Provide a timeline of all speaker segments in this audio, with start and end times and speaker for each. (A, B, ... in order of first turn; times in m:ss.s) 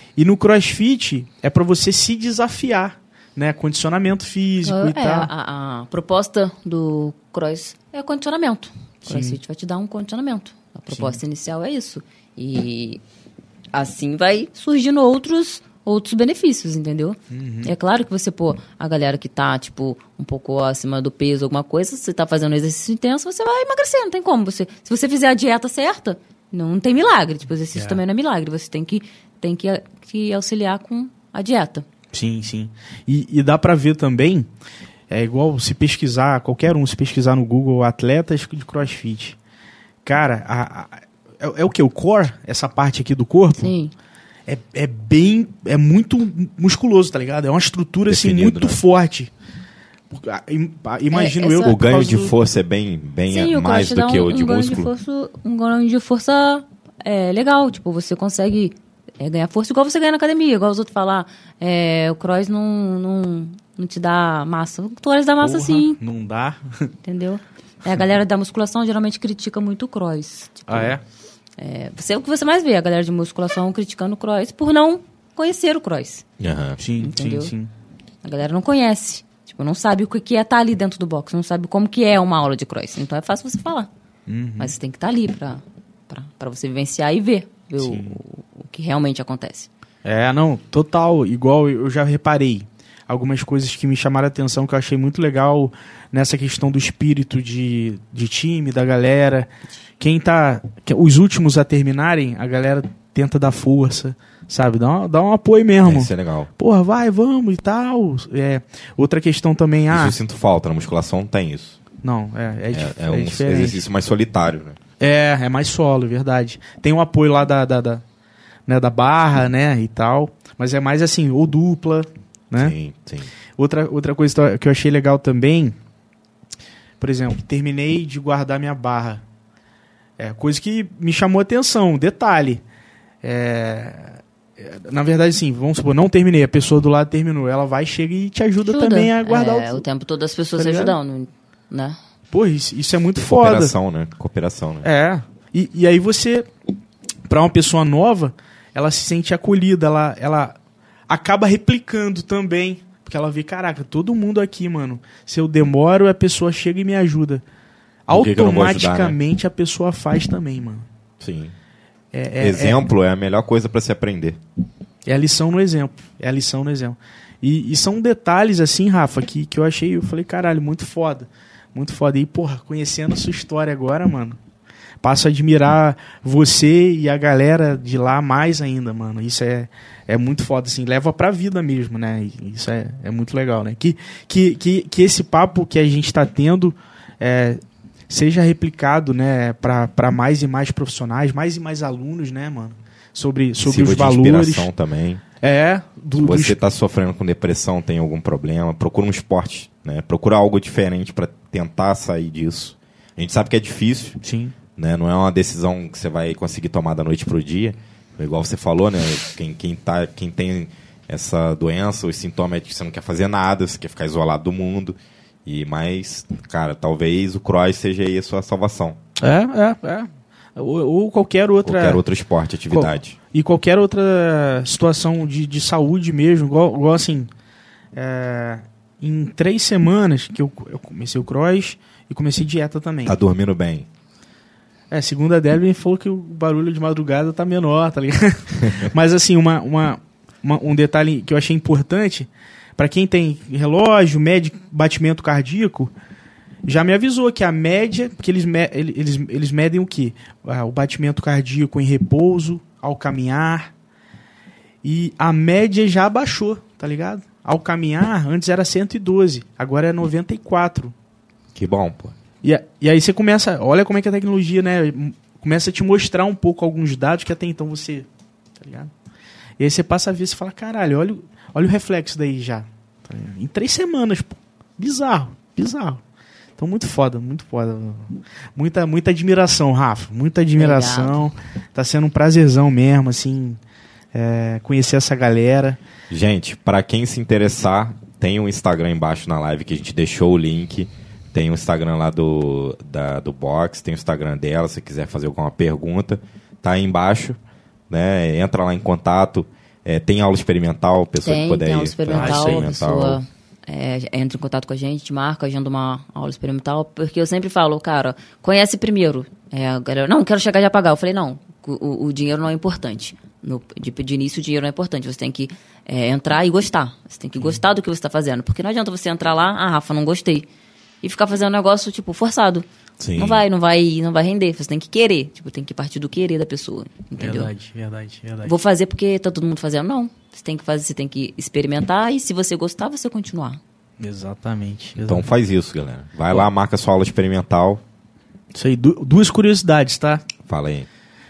0:00.2-0:05.3 A
0:04.6-0:13.0 B
0:09.1-0:09.4 A
0:10.9-0:11.2 A
0:13.7-0:31.8 B
0:17.3-0:17.7 A
0:27.8-0:28.0 A
0:32.1-0:34.5 A
0:35.1-0:39.4 A
0:40.0-0:43.7 A
0:43.6-0:43.9 B
0:44.5-0:49.3 A
0:48.1-0:48.8 C
0:50.1-0:52.4 A
0:51.1-0:51.8 B
0:51.6-0:54.9 C
0:53.3-1:06.0 B
1:05.4-1:06.9 A
1:07.0-1:10.9 B
1:10.7-1:11.0 A
1:11.6-1:16.2 B
1:16.4-1:16.8 C
1:16.8-1:17.7 A
1:17.0-1:17.5 B
1:18.2-1:23.9 B
1:24.3-1:24.7 A
1:24.6-1:29.7 B
1:27.8-1:28.2 A
1:30.0-1:39.5 A
1:40.0-1:50.2 A
1:45.8-1:46.5 C
1:49.9-1:51.8 C
1:52.0-1:53.8 A
1:52.7-1:54.8 C
1:55.0-1:58.0 A
1:58.7-2:02.8 A
2:02.6-2:03.3 C
2:03.6-2:05.8 A
2:07.0-2:09.2 A
2:10.2-2:12.6 A
2:13.2-2:19.8 A
2:18.6-2:22.0 B
2:20.6-2:21.0 A
2:22.3-2:23.7 A
2:23.3-2:24.9 C
2:24.8-2:26.5 A
2:27.3-2:30.6 A
2:31.1-2:37.4 A
2:38.1-2:40.9 A
2:38.1-2:39.2 C
2:41.2-2:41.5 C
2:42.1-2:42.9 A
2:42.4-2:44.4 C
2:45.1-2:54.4 A
2:55.0-3:14.7 A
3:13.6-3:15.2 C
3:15.4-3:16.6 A
3:16.2-3:24.2 C
3:24.2-3:24.6 A
3:24.8-3:39.0 C
3:39.2-3:42.0 A
3:41.6-3:43.2 C
3:42.7-3:47.3 A
3:48.0-3:53.2 A
3:53.1-3:53.9 C
3:54.9-4:05.9 A
4:06.7-4:13.7 A
4:14.8-4:20.9 A
4:21.6-4:22.2 C
4:22.4-4:28.9 A
4:29.6-4:36.0 A
4:36.6-4:43.6 A
4:40.6-4:41.2 B
4:44.1-4:45.8 A
4:46.1-4:57.4 C
4:57.9-5:03.2 C
5:01.2-5:20.5 B
5:02.1-5:02.8 A
5:21.0-5:27.5 B
5:23.0-5:23.4 C
5:27.2-5:28.6 A
5:28.4-5:33.6 B
5:34.0-5:35.3 A
5:35.0-5:37.8 C
5:38.5-5:40.2 A
5:40.5-5:40.9 C